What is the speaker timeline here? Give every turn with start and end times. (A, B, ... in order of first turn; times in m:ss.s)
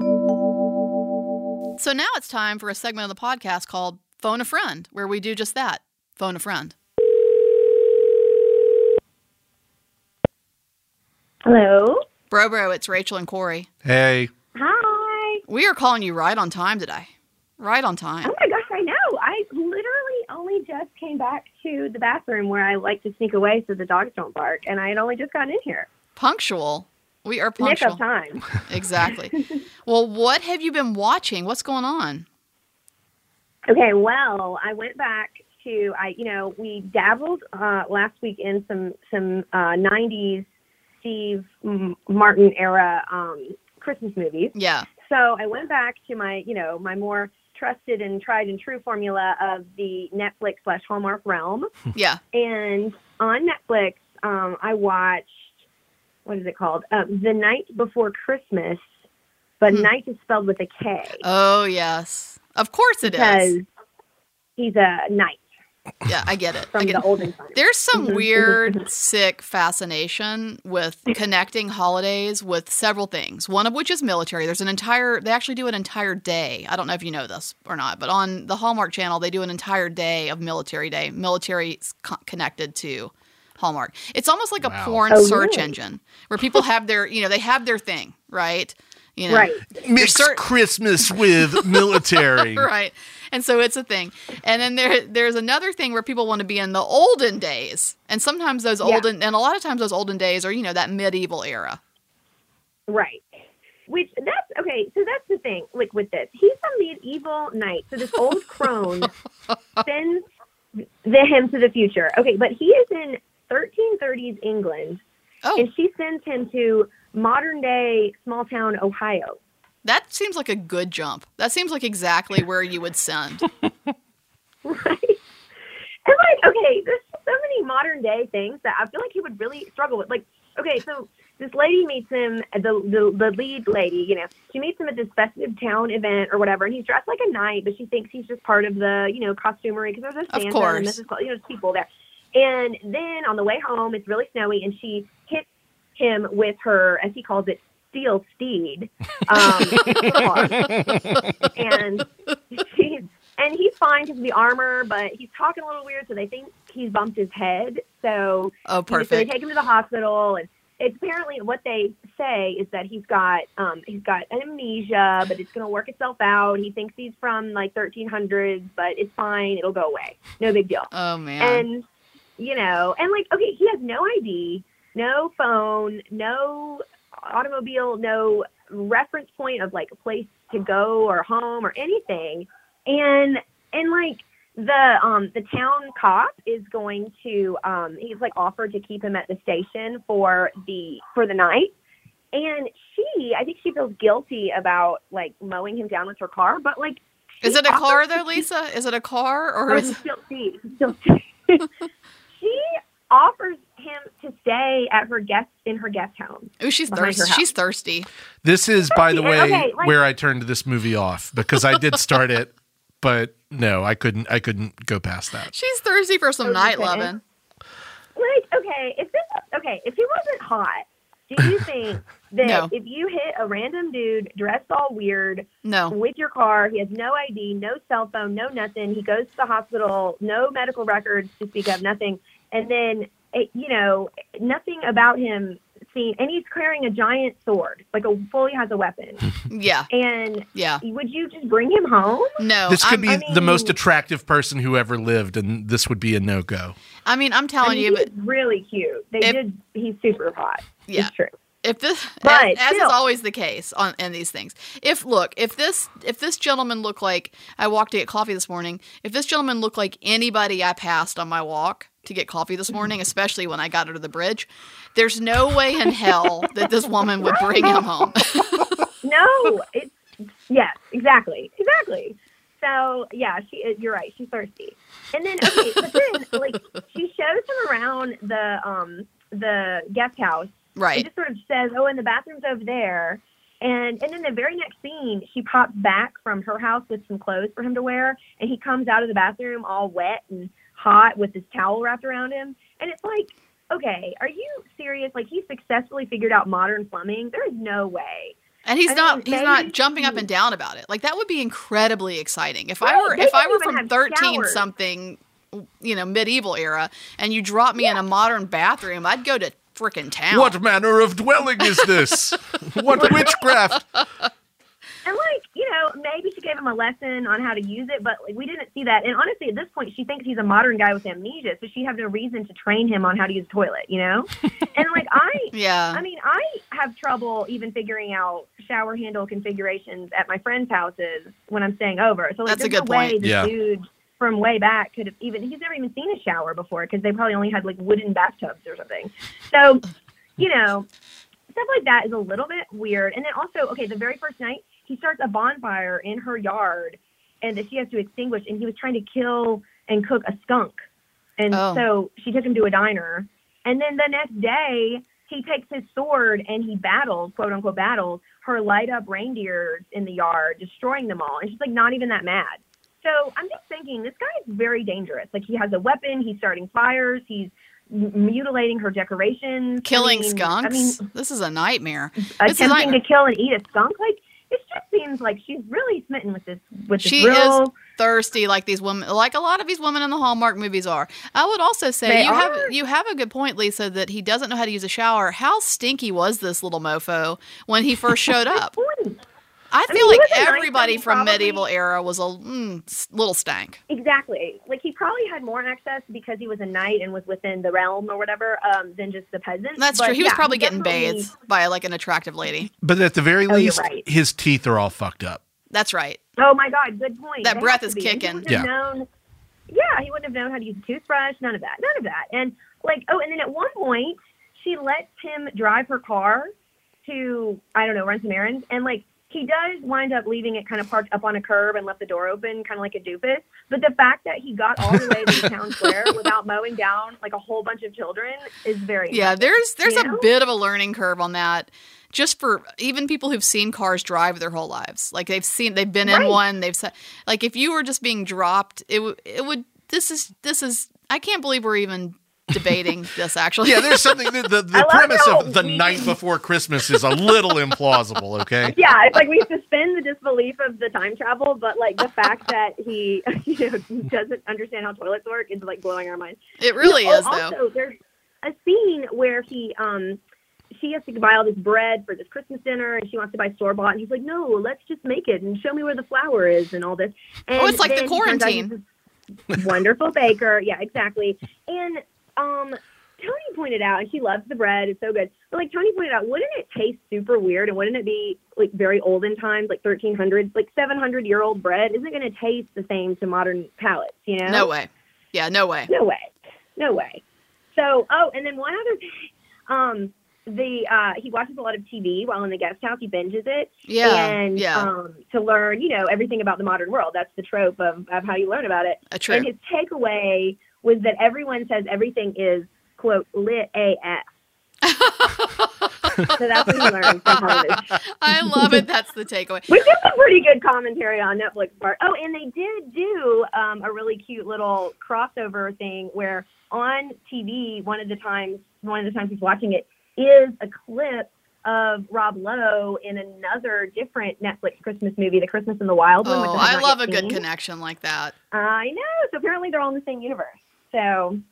0:01.8-0:06.7 A
0:11.4-0:12.0 B
0:12.3-0:13.7 A
0:13.8-0:14.3 C
0:14.5-0:15.4 B
0:15.5-0:18.3 A
0:18.2-0:25.9 B
0:26.2-0:28.0 A
0:27.6-0:28.5 B
0:28.6-0:29.3 A
0:29.8-0:32.2 A
0:33.7-0:40.4 B
0:41.0-0:51.7 B
0:44.5-0:44.9 A
0:51.9-0:52.2 A
0:52.3-0:55.5 B
0:56.2-0:58.8 B
0:59.6-1:01.2 B
1:01.2-1:03.5 A
1:03.0-1:03.6 B
1:04.6-1:05.4 B
1:06.0-1:30.4 A
1:06.7-1:08.8 B
1:24.6-1:25.1 C
1:25.1-1:25.7 B
1:29.3-1:29.6 B
1:29.7-1:32.7 C
1:31.1-1:41.8 A
1:38.8-1:39.1 B
1:42.9-1:49.1 B
1:49.8-1:50.2 B
1:51.0-1:55.0 B
1:55.6-1:59.4 B
1:59.8-2:03.4 A
2:04.6-2:05.2 B
2:06.0-2:51.8 B
2:20.3-2:21.0 A
2:29.8-2:30.2 A
2:38.7-2:39.3 A
2:50.9-2:51.6 A
2:52.4-3:11.7 B
3:12.3-3:18.4 B
3:17.4-3:20.0 A
3:19.7-3:21.7 B
3:22.4-3:27.5 B
3:26.6-3:28.1 A
3:28.4-3:35.5 C
3:28.9-3:30.0 B
3:35.4-3:37.2 A
3:36.4-3:37.1 B
3:38.1-3:59.2 B
3:42.4-3:42.7 A
3:45.6-3:45.9 A
3:59.5-3:59.9 A
3:59.9-4:02.4 B
4:00.5-4:00.8 A
4:02.4-4:03.2 A
4:02.7-4:06.8 C
4:03.0-4:03.8 B
4:07.0-4:08.1 A
4:07.6-4:11.3 B
4:10.9-4:11.1 A
4:11.6-4:28.8 A
4:12.2-4:13.0 B
4:27.2-4:27.8 B
4:29.0-4:58.4 B
4:40.8-4:41.1 A
4:58.6-5:10.6 A
4:58.9-5:00.2 B
5:02.8-5:04.7 B
5:10.3-5:13.8 C
5:11.8-5:12.3 A
5:12.9-5:13.2 B
5:12.9-5:13.8 A
5:15.0-5:39.9 B
5:25.5-5:26.0 A
5:32.4-5:33.2 A
5:33.2-5:33.5 C
5:40.4-5:40.8 B
5:41.5-5:50.7 B
5:51.4-6:11.1 B
5:51.5-5:51.8 A
6:09.8-6:13.0 A
6:12.2-6:17.7 B
6:17.0-6:28.7 A
6:22.0-6:22.7 B
6:28.5-6:29.2 B
6:29.7-6:33.8 A
6:29.9-6:31.7 B
6:33.9-6:41.3 B
6:39.8-6:42.7 A
6:42.8-6:45.4 C
6:43.5-6:44.0 B
6:45.7-6:46.2 A
6:46.4-6:49.1 B
6:47.4-6:48.5 A
6:49.7-6:56.5 B
6:57.0-7:10.3 B
7:09.1-7:24.3 A
7:16.0-7:16.4 B
7:23.6-7:28.8 C
7:24.7-7:26.2 B
7:28.7-7:40.2 B
7:36.6-7:37.5 A
7:40.8-7:48.8 B
7:47.6-7:48.7 A
7:49.5-8:04.7 B
8:04.4-8:05.9 A
8:05.9-8:07.2 B
8:07.7-8:24.2 B
8:13.9-8:14.9 A
8:19.1-8:19.5 A
8:24.8-8:29.8 A
8:26.3-8:28.8 B
8:29.7-8:47.4 B
8:46.2-8:48.3 A
8:48.5-8:51.4 B